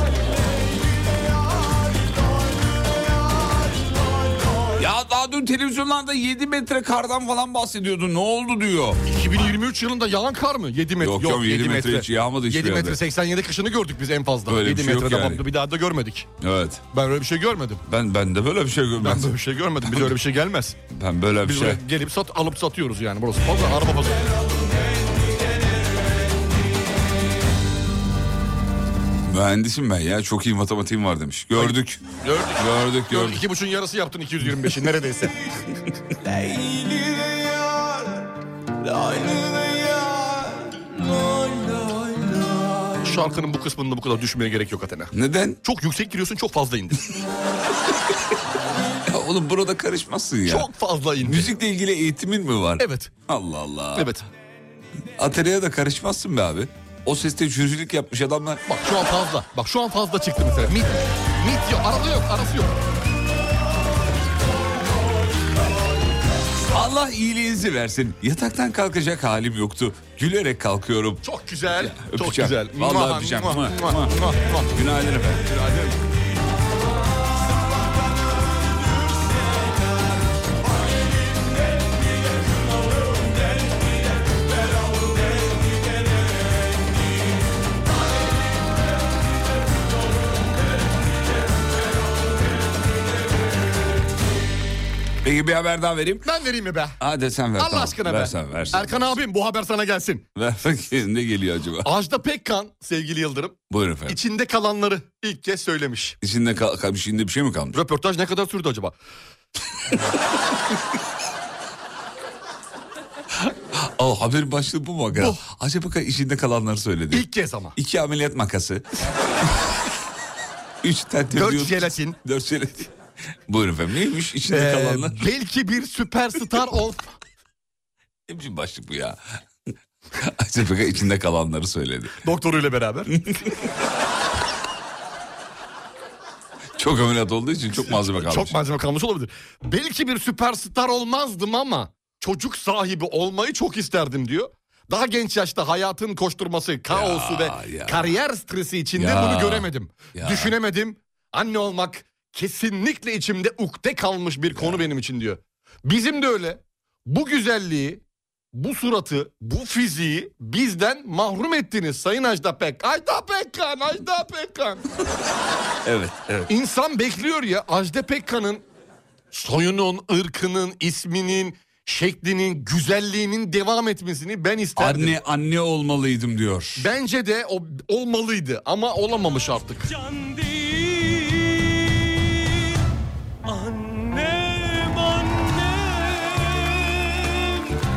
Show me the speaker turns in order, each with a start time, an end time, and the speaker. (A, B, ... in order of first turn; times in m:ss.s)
0:04.8-0:09.0 A
0:09.1-0:16.3 B
0:11.0-0:13.0 A
0:14.5-0:15.4 A
0:16.4-0:16.8 A
0:16.9-0:17.8 B
0:17.8-0:19.3 A
0:19.0-0:20.8 B
0:19.8-0:20.1 A
0:20.9-0:21.8 A
0:21.4-0:24.3 B
0:29.2-0:32.0 A
0:31.6-0:35.4 B
0:32.6-0:33.4 A
0:35.9-0:36.3 A
0:39.0-0:39.3 A
0:43.0-0:45.1 B
0:45.1-0:45.6 A
0:45.6-0:47.2 B
0:49.0-0:50.7 A
0:50.4-0:51.5 B
0:51.2-0:54.1 A
0:52.8-0:53.1 B
0:54.0-0:54.2 B
0:55.2-0:58.6 A
0:58.7-1:02.8 B
1:06.7-1:15.4 A
1:11.2-1:14.7 B
1:15.4-1:16.0 B
1:35.2-1:36.3 A
1:36.2-1:37.0 B
1:37.0-1:39.2 A
1:37.6-1:40.2 B
1:40.4-1:41.9 A
1:41.8-1:46.2 B
1:43.7-1:44.2 A
1:46.2-1:47.8 A
1:47.7-1:48.9 B
1:53.4-1:59.8 A
1:55.1-1:55.4 B
1:57.1-1:57.7 B
2:00.8-2:02.9 A
2:01.3-2:02.2 B
2:03.5-2:05.3 A
2:04.5-2:07.1 B
2:08.3-2:09.2 A
2:10.2-2:12.2 A
2:12.2-2:13.1 B
2:13.2-2:13.5 A
2:16.8-2:18.6 A
2:17.7-2:38.0 B
2:26.9-2:28.2 A
2:29.0-2:30.5 A
2:34.5-2:34.8 A
2:38.5-2:44.8 B
2:45.8-2:46.5 A
2:46.5-2:48.6 B
2:49.3-2:55.2 B
2:54.8-2:56.9 A
2:56.8-2:59.9 B